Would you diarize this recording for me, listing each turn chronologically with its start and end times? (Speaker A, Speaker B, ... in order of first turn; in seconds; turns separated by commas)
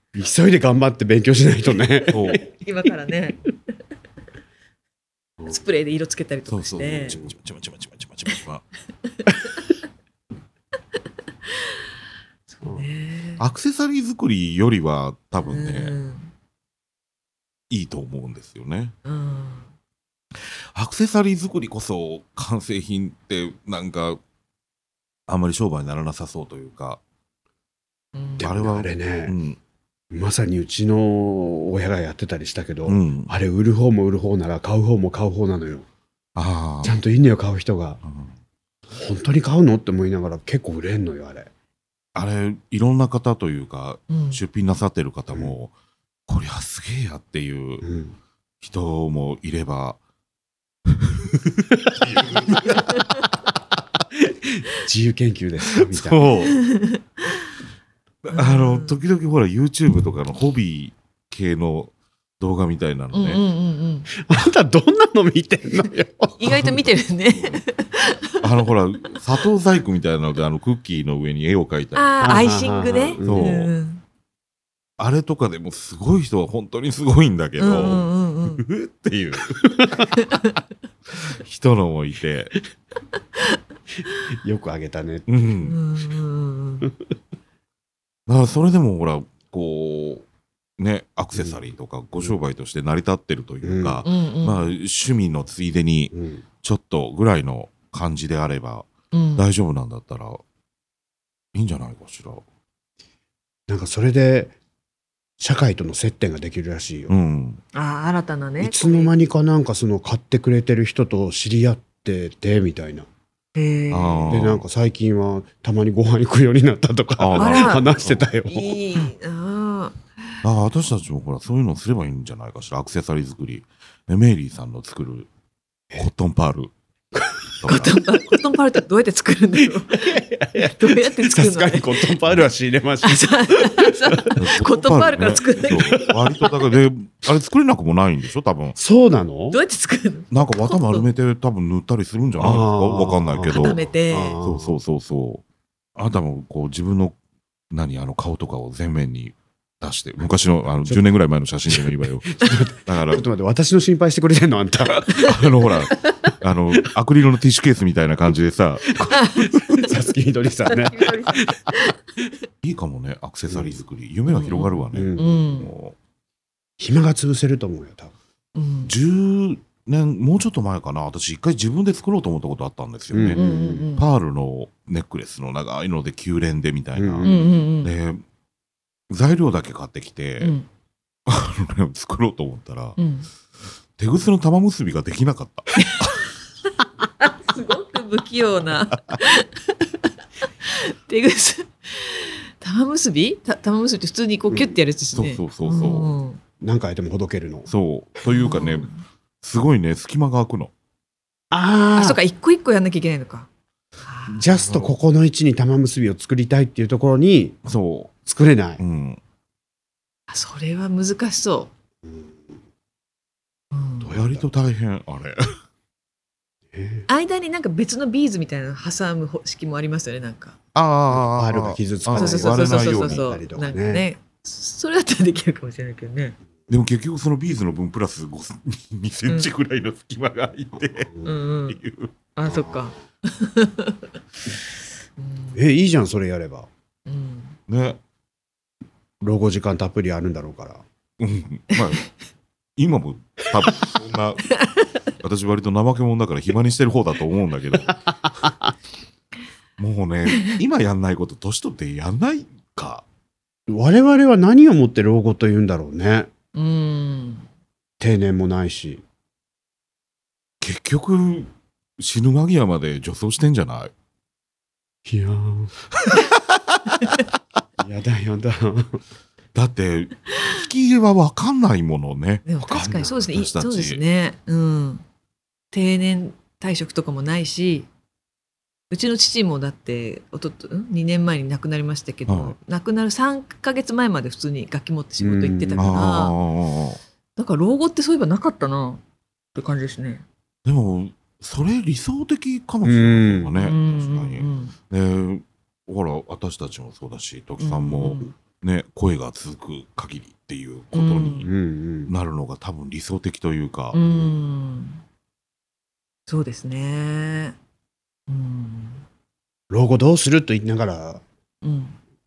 Speaker A: 0.1-2.5, Speaker B: 2.1-2.5, Speaker C: 2.5-3.4, Speaker C: 5.5-7.2, Speaker B: 6.5-8.6, Speaker C: 12.6-13.4, Speaker A: 12.6-12.9, Speaker B: 13.4-15.9, Speaker C: 15.4-16.3, Speaker B: 17.7-18.9, Speaker C: 19.1-19.7, Speaker B: 20.4-24.2, Speaker B: 25.3-27.0, Speaker C: 28.1-28.4, Speaker A: 28.4-29.4, Speaker B: 28.4-29.6, Speaker A: 30.1-35.9, Speaker B: 32.8-33.3, Speaker B: 36.4-37.0, Speaker A: 36.8-38.0, Speaker B: 38.0-38.3, Speaker A: 38.9-41.5, Speaker B: 42.1-45.7, Speaker C: 44.1-44.4, Speaker B: 46.3-47.9, Speaker A: 47.8-48.1, Speaker B: 48.6-50.0, Speaker B: 51.0-51.4, Speaker B: 52.0-52.9, Speaker A: 54.1-56.3, Speaker B: 55.7-56.6, Speaker C: 56.5-57.0, Speaker B: 58.2-63.4, Speaker C: 58.3-58.9, Speaker C: 63.1-64.1, Speaker A: 64.1-66.9, Speaker C: 66.4-68.4, Speaker B: 66.5-67.6, Speaker B: 68.4-72.5, Speaker C: 71.9-74.0, Speaker A: 72.2-73.5, Speaker B: 73.2-73.7, Speaker B: 75.0-80.2, Speaker C: 77.6-78.6, Speaker A: 79.7-80.1, Speaker B: 81.2-82.6, Speaker A: 84.2-85.3, Speaker B: 85.3-85.8, Speaker C: 85.6-86.9, Speaker B: 88.3-90.2, Speaker B: 90.8-100.4, Speaker A: 91.3-91.6, Speaker A: 93.6-94.0, Speaker C: 94.0-94.6, Speaker A: 96.1-96.4, Speaker C: 99.1-99.5, Speaker B: 101.5-102.4, Speaker A: 103.7-104.5, Speaker A: 105.4-107.1, Speaker B: 107.1-107.6, Speaker C: 107.7-109.1, Speaker A: 108.6-113.1, Speaker C: 113.5-114.2, Speaker B: 113.9-114.7, Speaker A: 114.3-118.8, Speaker B: 117.2-118.3, Speaker C: 117.4-117.8, Speaker C: 118.5-120.0, Speaker B: 120.4-125.3, Speaker B: 125.9-126.7, Speaker A: 127.1-127.8, Speaker B: 127.6-128.0, Speaker C: 127.7-130.1, Speaker A: 129.7-134.4, Speaker C: 130.8-131.9, Speaker C: 133.1-135.8, Speaker B: 134.3-138.8, Speaker A: 135.7-136.3, Speaker A: 138.7-139.6, Speaker C: 139.5-141.1, Speaker B: 140.3-145.4, Speaker A: 142.4-144.8, Speaker C: 143.6-144.3, Speaker B: 146.0-147.2, Speaker B: 147.7-153.2, Speaker A: 151.7-156.3, Speaker B: 155.2-159.8, Speaker A: 159.0-161.9, Speaker C: 159.1-159.4, Speaker C: 160.9-161.8, Speaker B: 162.6-165.9, Speaker A: 163.5-163.8, Speaker C: 164.3-165.7, Speaker A: 164.9-165.5, Speaker A: 166.8-168.1, Speaker C: 168.6-168.9, Speaker B: 168.8-177.3, Speaker A: 173.1-173.9, Speaker C: 173.5-174.0, Speaker A: 176.9-177.5, Speaker C: 177.2-177.9, Speaker B: 177.8-178.2, Speaker B: 179.1-180.6, Speaker C: 180.4-180.7, Speaker B: 181.3-183.0, Speaker C: 183.0-183.3, Speaker B: 184.0-186.3, Speaker C: 187.2-189.5, Speaker B: 188.9-189.2, Speaker C: 190.7-196.4, Speaker A: 194.5-194.8, Speaker B: 195.1-196.1, Speaker A: 196.6-197.7, Speaker B: 197.7-200.7, Speaker C: 198.4-198.7, Speaker A: 201.5-202.2, Speaker C: 202.0-203.5, Speaker C: 204.0-204.4, Speaker A: 204.3-207.6, Speaker B: 204.5-204.9, Speaker B: 207.6-208.2, Speaker A: 208.3-208.8, Speaker B: 208.8-209.2, Speaker C: 210.3-211.7, Speaker A: 212.0-212.5, Speaker C: 213.7-214.1, Speaker A: 214.0-214.5, Speaker B: 214.1-215.4, Speaker A: 216.7-217.1, Speaker C: 217.1-220.6, Speaker B: 220.7-223.3, Speaker A: 221.1-224.1, Speaker C: 222.2-226.3, Speaker B: 226.7-232.2, Speaker A: 230.9-231.3, Speaker C: 231.2-231.8, Speaker C: 232.3-233.9, Speaker A: 232.4-232.9, Speaker C: 235.2-235.6, Speaker A: 235.5-236.7, Speaker C: 237.1-237.6, Speaker B: 237.7-238.0, Speaker A: 239.2-240.8, Speaker B: 241.2-242.1, Speaker B: 242.8-248.1, Speaker B: 249.8-253.0, Speaker A: 253.7-256.3, Speaker C: 256.5-257.4, Speaker A: 258.0-259.0, Speaker B: 260.6-263.9, Speaker A: 265.0-265.7, Speaker B: 266.0-266.3, Speaker A: 267.8-269.0, Speaker B: 269.5-274.0, Speaker C: 272.5-275.0, Speaker C: 275.7-277.9, Speaker C: 278.9-286.4, Speaker B: 282.3-282.6, Speaker A: 285.2-286.1, Speaker B: 285.8-287.0, Speaker C: 287.4-289.0, Speaker C: 289.5-290.2, Speaker B: 290.6-301.5, Speaker A: 292.8-293.5, Speaker C: 293.6-294.7, Speaker C: 297.6-298.3, Speaker C: 300.9-301.5, Speaker A: 301.4-302.1, Speaker B: 302.1-304.0, Speaker C: 303.9-305.0, Speaker A: 304.0-304.4, Speaker C: 306.3-307.6, Speaker C: 308.3-309.0, Speaker A: 309.7-311.2, Speaker C: 311.6-311.9